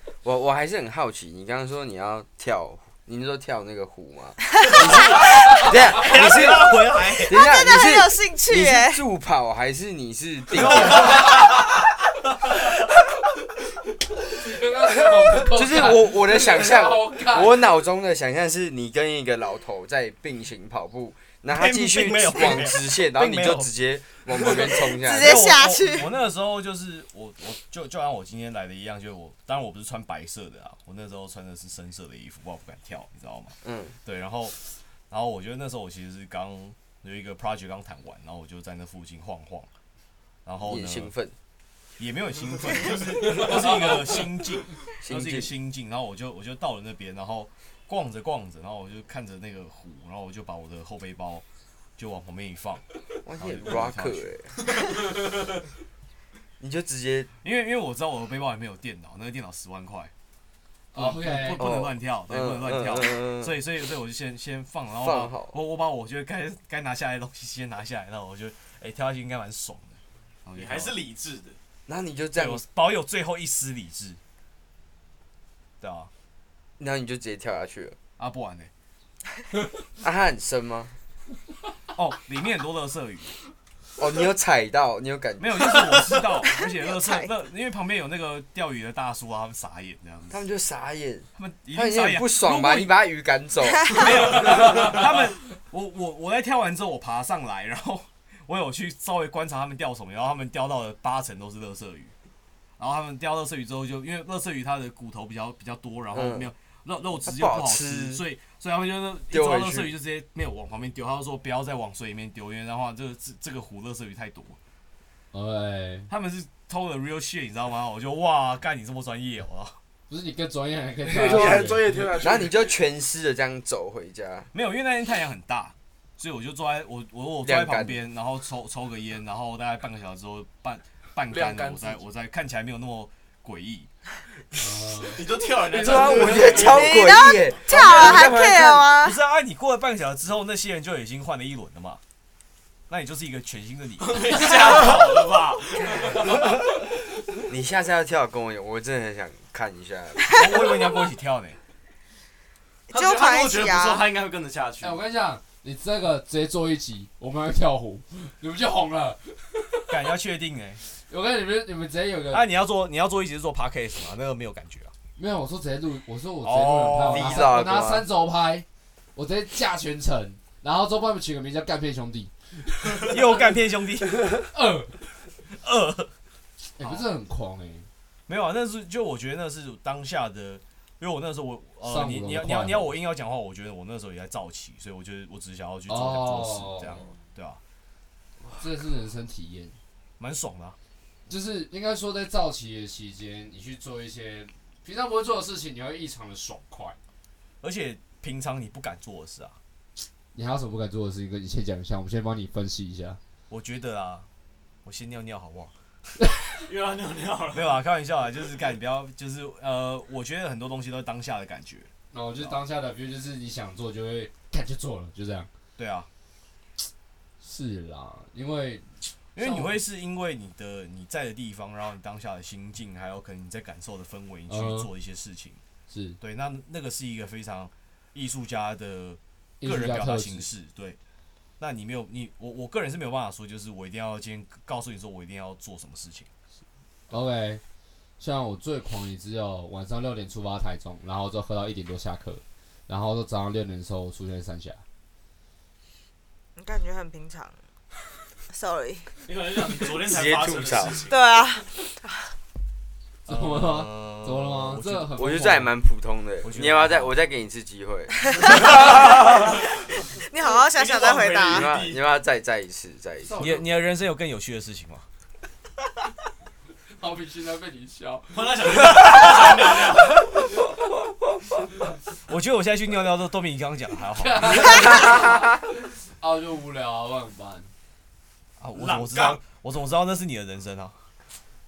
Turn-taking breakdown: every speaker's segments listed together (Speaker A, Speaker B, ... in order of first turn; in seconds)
Speaker A: 0.2-11.5, 15.4-25.5, 33.6-34.0, 40.6-41.4, 45.0-45.5, 53.2-54.6, 56.6-57.3, 61.5-63.5, 65.0-65.5, 71.9-72.6, 76.8-78.0, 80.0-81.0, 84.0-86.1, 90.3-95.0, 106.1-106.5, 107.2-108.2, 109.3-109.9, 122.2-124.5, 127.4-128.0, 135.7-138.9, 147.5-150.7, 167.1-168.1, 250.0-251.1, 255.2-258.3, 261.5-263.4
Speaker B: 5.0-5.2, 5.9-7.5, 10.6-11.1, 21.5-23.7, 24.3-34.6, 35.1-39.7, 40.5-41.1, 42.0-51.5, 52.0-52.9, 53.4-54.4, 57.4-60.1, 60.9-71.0, 72.3-74.2, 75.8-76.1, 78.2-78.7, 81.9-83.3, 85.4-90.4, 91.4-93.0, 93.9-102.1, 102.8-114.6, 116.1-119.8, 124.5-133.9, 139.0-142.0, 142.9-144.8, 150.3-151.6, 159.9-160.8, 162.3-164.9, 166.4-167.6, 173.0-174.3, 175.5-176.1, 176.8-177.1, 178.3-187.6, 190.2-190.8, 197.6-199.6, 203.5-204.3, 204.8-205.7, 207.5-212.6, 215.8-216.1, 219.3-225.6, 226.2-231.0, 231.6-236.3, 253.3-255.2, 256.4-257.2, 263.4-265.1, 269.1-269.4, 272.3-275.4, 278.6-281.1
Speaker C: 7.3-9.0, 25.0-26.1, 86.8-87.3, 136.6-139.2, 152.9-154.1, 246.6-247.6, 248.5-249.2, 251.1-252.3, 258.4-258.7, 260.2-261.7
Speaker D: 14.2-17.7, 60.9-61.6, 115.3-116.1, 120.1-122.0, 134.6-135.2, 154.8-159.9, 160.9-162.4, 165.2-173.1, 174.5-175.1, 176.8-177.9, 181.8-182.9, 185.9-187.0, 188.6-189.8, 191.3-197.0, 200.3-203.2, 212.1-215.5, 217.4-219.7, 224.5-224.9, 225.9-226.2, 229.6-230.5, 237.1-237.6, 238.2-244.8, 253.3-255.8, 263.2-263.7, 267.0-269.7, 270.2-270.6, 274.2-275.5, 276.2-277.7
Speaker E: 42.9-44.1, 70.5-71.6, 94.7-94.9, 135.0-137.1, 144.0-146.5, 152.9-155.0, 206.6-207.8, 249.2-251.5, 258.5-259.7, 260.5-262.1, 268.3-270.3, 278.8-279.4
Speaker F: 121.0-122.8, 131.3-132.0